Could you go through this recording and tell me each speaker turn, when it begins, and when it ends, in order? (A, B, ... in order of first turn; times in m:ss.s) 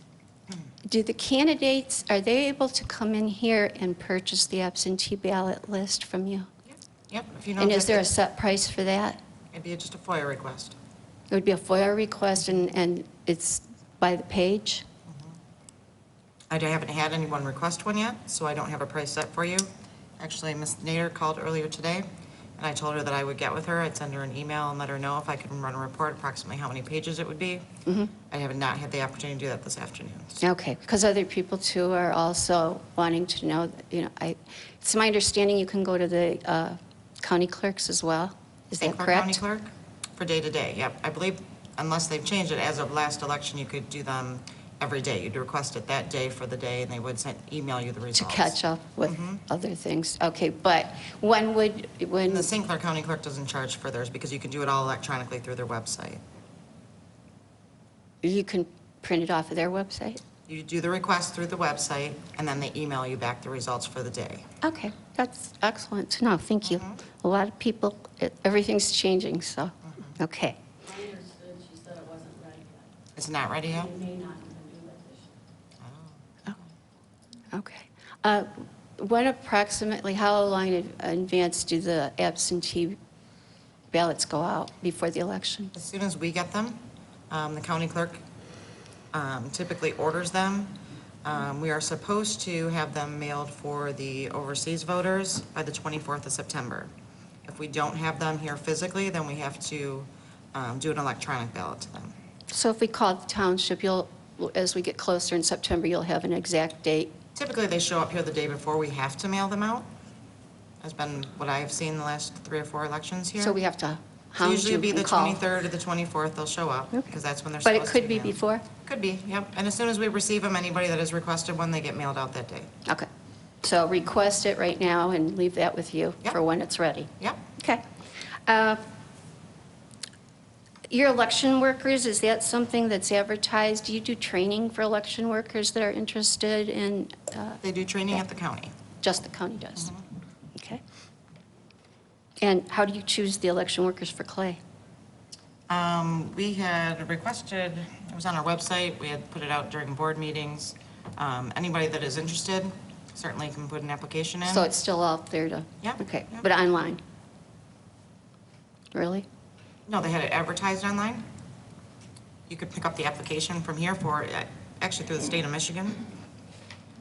0:00.8-0:06.5 A
0:07.1-0:08.0 B
0:07.6-0:09.2 A
0:09.5-0:10.8 B
0:11.3-0:14.8 A
0:15.1-0:15.4 B
0:16.5-0:22.0 B
0:22.6-0:27.6 B
0:27.8-0:28.1 A
0:28.3-0:30.4 B
0:30.4-0:39.4 A
0:38.8-0:49.4 B
0:48.1-0:52.5 A
0:52.3-0:56.2 B
0:58.2-1:00.2 A
1:00.5-1:04.4 B
1:04.6-1:10.6 A
1:06.6-1:07.0 B
1:09.8-1:10.2 B
1:10.9-1:12.8 C
1:13.2-1:14.0 B
1:13.8-1:15.3 C
1:15.8-1:16.7 B
1:17.5-1:23.0 A
1:23.9-1:25.7 A
1:25.7-1:28.2 B
1:29.1-1:36.9 B
1:37.5-1:42.1 B
1:42.5-1:47.1 A
1:47.3-1:49.9 B
1:50.8-1:53.6 B
1:53.4-1:55.4 A
1:54.4-2:02.7 B
1:57.6-1:58.6 A
2:03.6-2:07.8 A
2:08.5-2:08.8 A
2:10.9-2:17.6 A
2:17.6-2:18.7 B
2:19.0-2:19.9 A
2:20.5-2:20.8 A
2:22.4-2:24.6 A
2:25.7-2:34.7 B
2:34.4-2:37.0 A
2:35.8-2:36.4 B
2:38.9-2:39.2 A
2:39.9-2:41.2 B
2:42.5-2:46.1 B